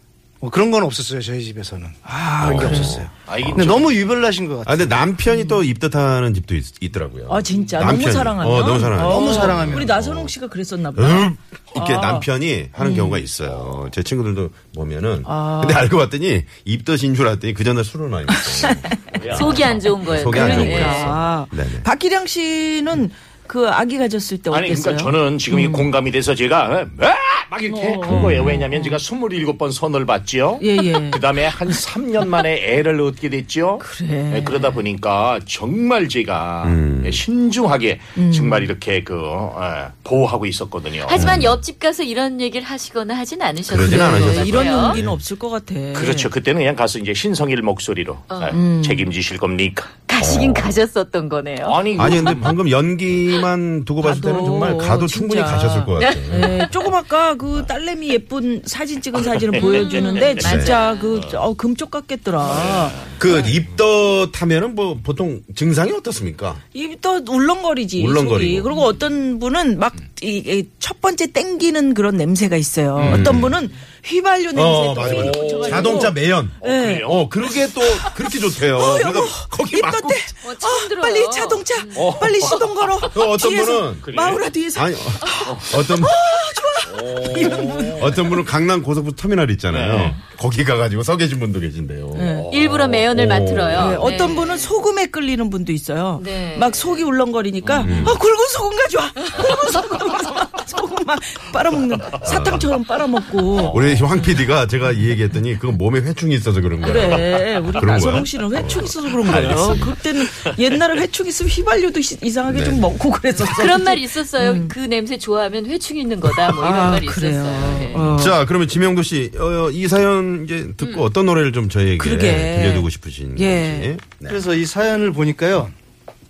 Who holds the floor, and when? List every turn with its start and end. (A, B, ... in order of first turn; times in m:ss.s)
0:00.4-0:05.0 A
0:02.0-0:03.0 B
0:02.4-0:03.7 C
0:03.3-0:04.0 D
0:04.6-0:10.3 C
0:05.3-0:05.6 B
0:07.3-0:13.2 B
0:09.0-0:09.9 A
0:10.9-0:21.9 C
0:15.2-0:15.9 B
0:18.3-0:18.9 B
0:19.1-0:20.0 D
0:19.3-0:21.2 E
0:20.2-0:25.9 B
0:24.5-0:41.4 D
0:27.7-0:29.0 B
0:28.1-0:28.6 C
0:30.6-0:31.2 B
0:33.8-0:34.7 B
0:36.6-0:37.2 C
0:38.2-0:38.7 B
0:41.0-0:45.0 E
0:41.2-0:41.6 C
0:43.7-0:45.2 C
0:43.8-0:46.3 B
0:45.9-0:49.9 D
0:48.3-0:48.6 E
0:48.5-0:49.1 B
0:50.1-0:51.8 E
0:50.2-0:50.8 C
0:51.6-0:52.6 D
0:51.9-0:56.5 C
0:54.0-1:03.0 B
0:56.0-0:56.7 E
0:59.5-1:01.2 E
0:59.6-1:00.4 D
1:00.4-1:00.8 C
1:03.2-1:06.6 C
1:06.7-1:17.2 B
1:08.0-1:08.7 C
1:13.0-1:13.4 D
1:13.0-1:13.6 C
1:14.5-1:20.2 C
1:15.0-1:17.3 D
1:17.7-1:28.4 B
1:20.4-1:22.8 E
1:21.9-1:22.7 D
1:23.1-1:24.1 C
1:24.0-1:24.4 D
1:24.7-1:26.2 C
1:27.0-1:27.9 D
1:27.4-1:34.1 C
1:29.7-1:30.2 D
1:32.1-1:32.5 B
1:32.3-1:33.0 D
1:32.5-1:34.7 E
1:33.7-1:43.8 B
1:36.2-1:37.1 E
1:37.6-1:38.1 D
1:37.8-1:38.2 C
1:42.2-1:42.7 C
1:43.7-1:49.9 C
1:46.8-1:54.7 B
1:52.5-1:53.0 C
1:53.5-1:58.1 E
1:56.5-1:58.4 B
1:57.9-2:04.4 C
2:00.8-2:01.0 E
2:02.0-2:03.9 B
2:04.3-2:05.7 A